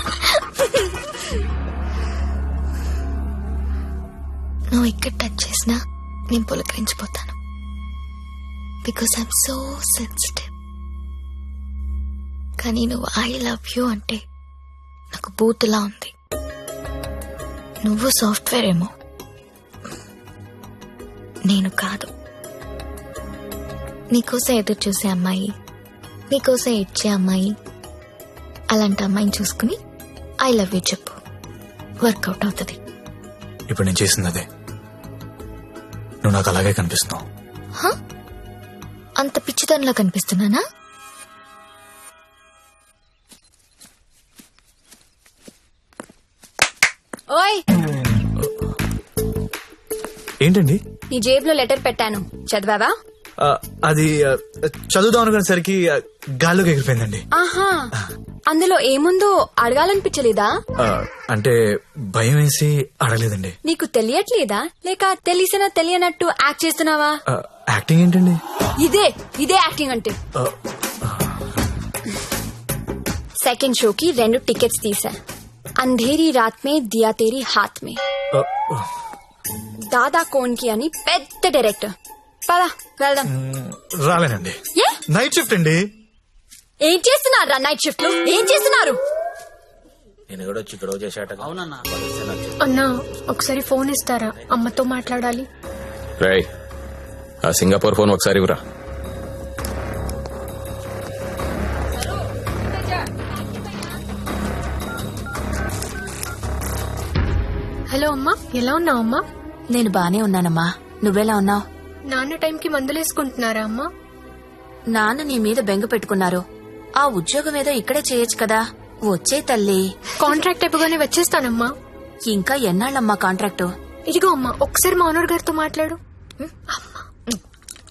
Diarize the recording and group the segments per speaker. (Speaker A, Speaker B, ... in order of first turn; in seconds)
Speaker A: 4.7-5.8, 6.3-7.3, 8.8-10.5, 12.6-14.2, 15.1-16.1, 17.9-18.9, 21.5-22.1, 24.1-25.5, 26.3-27.5, 28.7-29.8, 30.4-31.2, 32.0-32.8, 39.2-40.6
Speaker B: 33.7-34.5, 36.2-37.2, 50.4-50.8, 53.4-57.2, 60.8-61.5, 62.1-63.5, 67.3-68.4, 78.3-78.9, 83.3-84.6, 85.1-85.8
Speaker C: 47.3-47.6, 51.1-52.9, 57.4-57.9, 58.5-60.5, 63.6-67.2, 68.8-70.2, 73.4-75.2, 75.8-78.0, 79.9-81.9, 82.5-83.3, 86.8-89.0
Speaker D: 90.3-92.4, 96.2-96.5, 97.5-98.6
Speaker E: 92.6-95.5, 107.9-109.2, 112.1-113.9, 120.2-121.7, 124.1-126.0
Speaker F: 109.7-111.7, 114.9-116.4, 117.0-119.9, 122.3-123.7